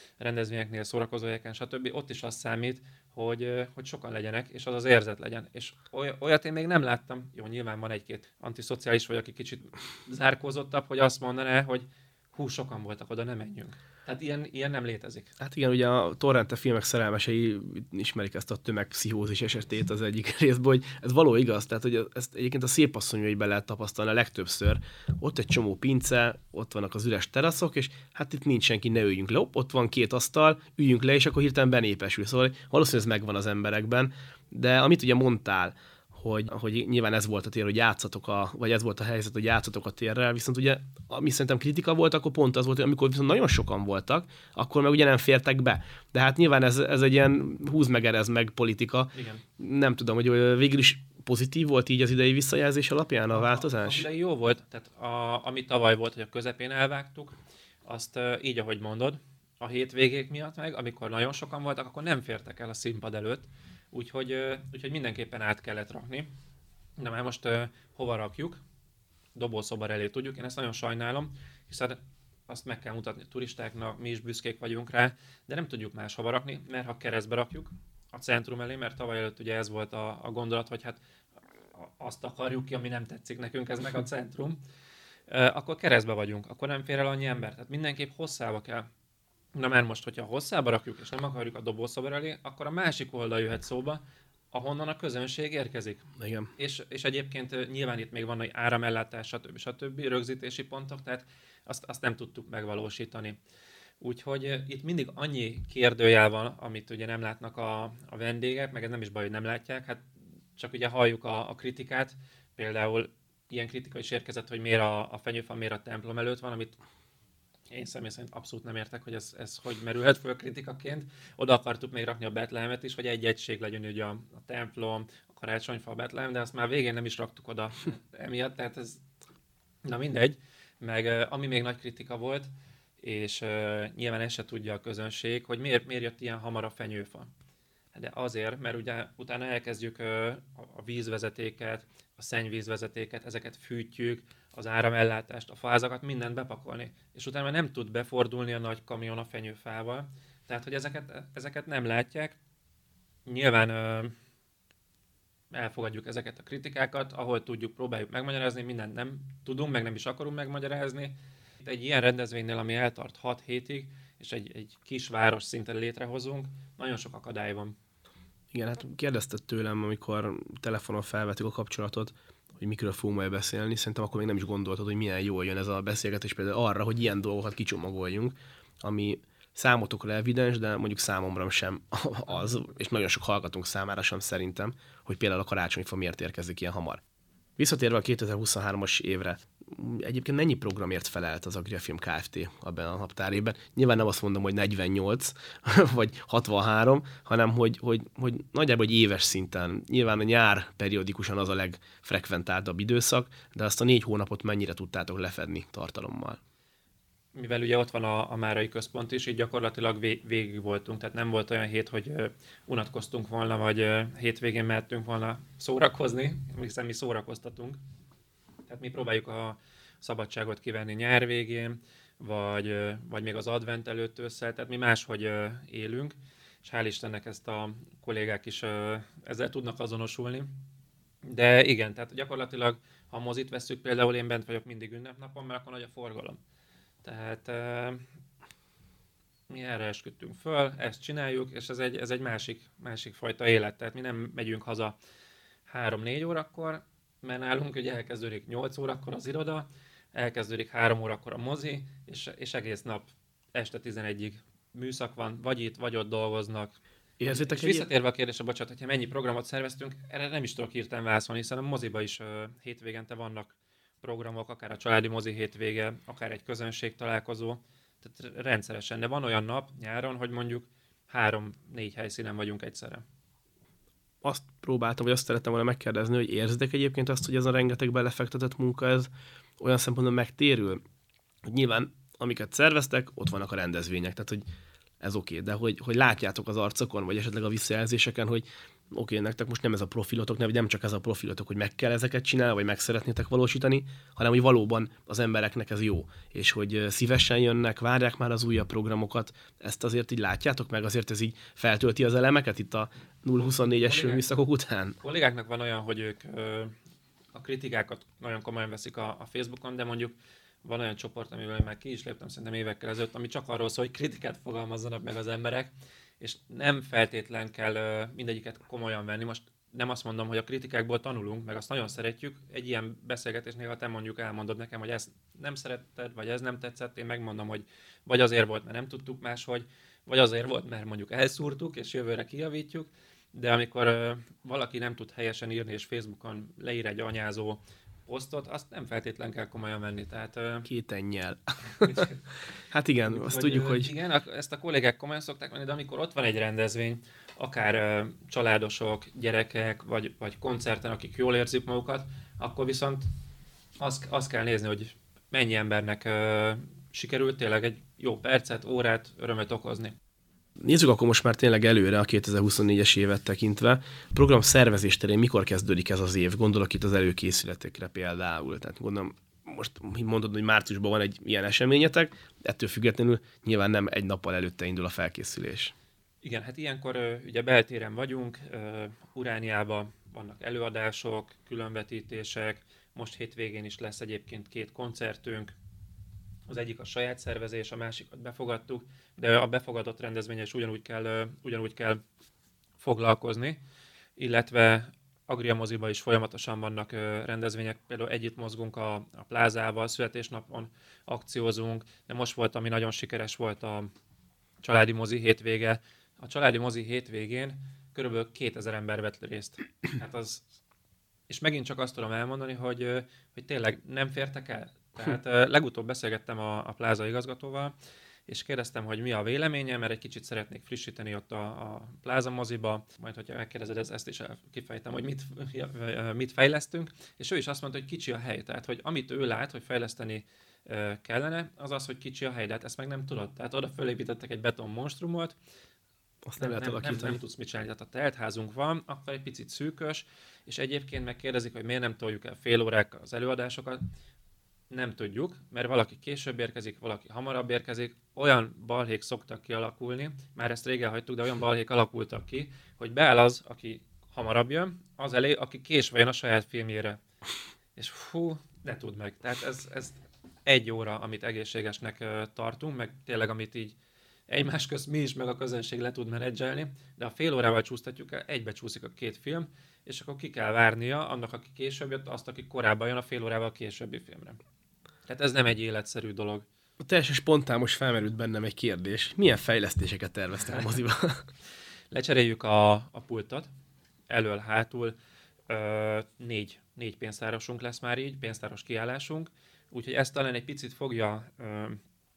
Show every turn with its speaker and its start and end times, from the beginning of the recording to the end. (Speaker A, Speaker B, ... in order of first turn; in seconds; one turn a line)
Speaker A: 0.2-15.3
Speaker B: 15.4-54.0
Speaker A: 49.1-49.4
Speaker A: 53.3-66.3
Speaker A: 67.0-68.6
Speaker A: 69.3-72.0
Speaker A: 72.5-81.0
Speaker A: 81.8-84.6
Speaker A: 85.3-88.9
Speaker A: 89.5-94.0
Speaker A: 94.5-96.0
Speaker B: 96.2-96.5
Speaker A: 96.6-103.4
Speaker A: 104.0-116.8
Speaker A: 117.7-129.0
Speaker A: 129.8-137.3
Speaker A: 137.9-152.4
Speaker A: 153.3-154.1
Speaker A: 155.5-167.8
Speaker B: 168.5-187.0
Speaker B: 187.6-206.4
Speaker A: 207.3-217.8
Speaker A: 218.7-230.5
Speaker A: 231.2-236.4
Speaker A: 237.0-238.0
Speaker A: 239.5-245.0
Speaker A: 245.7-256.8
Speaker B: 257.2-257.9
Speaker A: 257.3-273.0
Speaker B: 274.2-280.8
Speaker B: 281.4-284.4
Speaker B: 285.0-305.0
Speaker A: 303.4-304.2
Speaker A: 305.0-306.7
Speaker A: 307.3-340.7
Speaker B: 340.7-342.1
Speaker A: 341.8-342.2
Speaker B: 342.7-343.9
Speaker A: 343.1-353.1
Speaker A: 353.8-359.9
Speaker B: 360.6-375.7
Speaker A: 376.2-385.5
Speaker A: 386.5-392.0
Speaker A: 392.8-393.6
Speaker A: 394.2-403.9
Speaker A: 404.6-410.4
Speaker A: 411.3-417.7
Speaker A: 418.3-435.4
Speaker B: 436.2-437.2
Speaker A: 436.4-443.9
Speaker A: 444.7-457.0
Speaker A: 457.8-463.8
Speaker A: 464.3-474.4
Speaker A: 475.1-476.5
Speaker B: 476.8-481.3
Speaker A: 481.9-483.5
Speaker A: 484.1-484.9
Speaker A: 485.5-491.8